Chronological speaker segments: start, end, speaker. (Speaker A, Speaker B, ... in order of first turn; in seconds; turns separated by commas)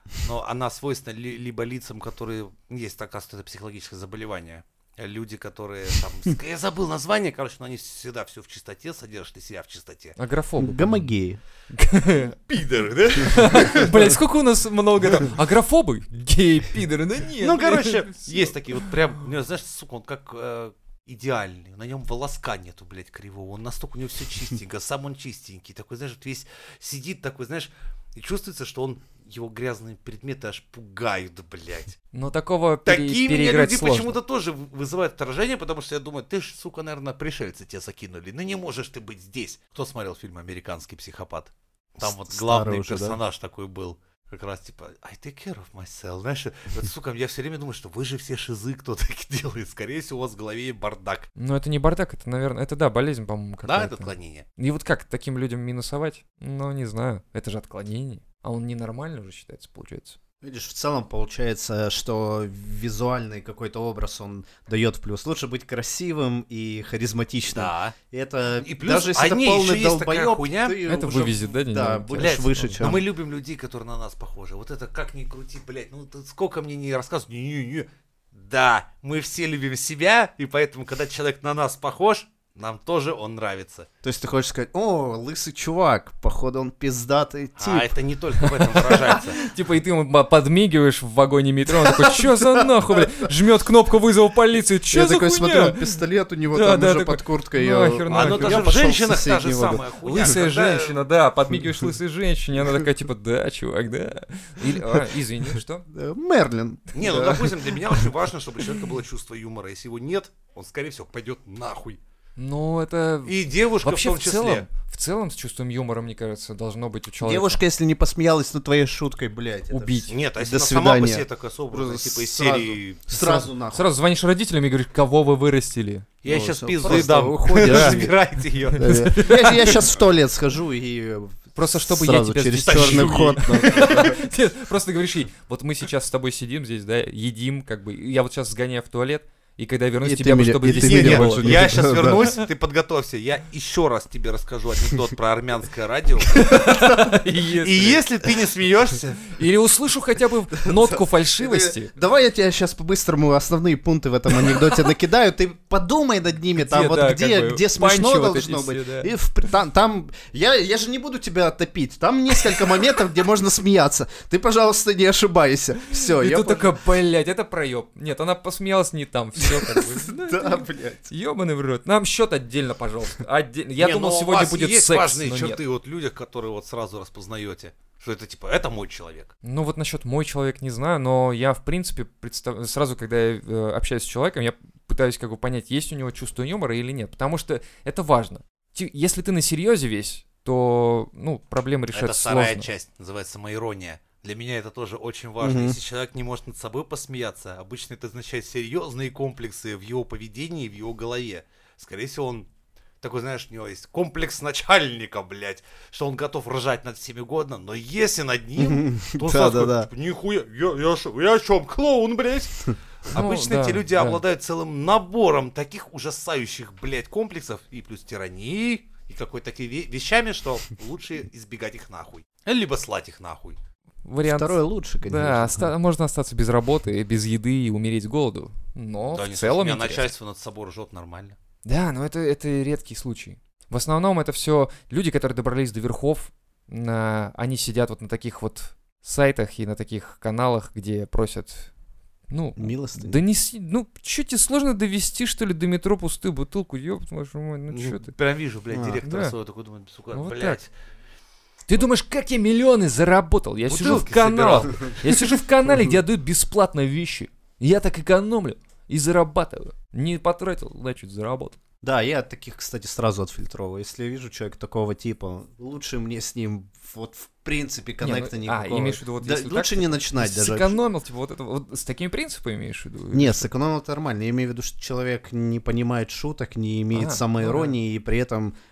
Speaker A: 0.1-10.2, Speaker B: 10.2-11.0, Speaker C: 10.6-11.4, Speaker B: 11.7-12.4, Speaker A: 12.5-13.9, Speaker B: 13.2-18.9, Speaker A: 17.4-32.0, Speaker B: 32.1-34.2, Speaker A: 32.9-51.3, Speaker C: 42.0-43.2, Speaker B: 51.4-60.2, Speaker A: 53.6-54.5, Speaker C: 60.4-73.0, Speaker A: 67.5-68.0, Speaker A: 68.6-71.0, Speaker B: 70.8-72.9, Speaker A: 72.2-83.9, Speaker C: 84.0-87.9, Speaker A: 87.6-89.4, Speaker B: 88.8-96.0, Speaker C: 91.8-93.3, Speaker C: 94.9-100.3, Speaker B: 96.5-98.8, Speaker A: 98.1-101.0, Speaker B: 100.0-105.9, Speaker C: 101.5-101.8, Speaker C: 105.9-108.0, Speaker A: 107.0-112.0, Speaker B: 107.0-107.5, Speaker B: 112.4-117.6, Speaker A: 113.2-114.7, Speaker C: 117.2-123.9, Speaker B: 119.7-120.1, Speaker A: 120.1-123.0, Speaker B: 123.1-126.1, Speaker A: 126.2-129.1, Speaker C: 126.3-128.2, Speaker B: 126.8-128.1, Speaker C: 128.7-134.2, Speaker B: 128.8-129.9, Speaker B: 131.6-142.4, Speaker A: 132.6-134.1, Speaker C: 140.0-142.3, Speaker A: 140.7-146.6, Speaker B: 146.3-148.0, Speaker C: 146.6-146.9, Speaker A: 147.6-149.3, Speaker B: 149.3-151.9, Speaker C: 150.5-166.7, Speaker B: 156.6-159.1, Speaker B: 166.0-175.6, Speaker C: 169.4-171.1, Speaker A: 173.8-179.3, Speaker B: 179.4-192.7, Speaker A: 191.9-202.5, Speaker C: 195.4-195.8, Speaker A: 203.0-223.6, Speaker C: 208.6-209.9, Speaker B: 213.1-214.2, Speaker B: 224.1-230.1, Speaker C: 224.3-225.7, Speaker A: 229.1-231.4, Speaker B: 231.7-241.7, Speaker B: 242.3-248.1, Speaker C: 242.6-243.2, Speaker A: 247.7-250.7, Speaker C: 248.7-249.0, Speaker B: 249.0-249.4, Speaker B: 250.1-250.6, Speaker B: 251.7-261.6, Speaker A: 253.7-255.4, Speaker C: 261.8-270.8, Speaker B: 268.0-273.5, Speaker C: 273.1-278.6, Speaker B: 276.9-277.8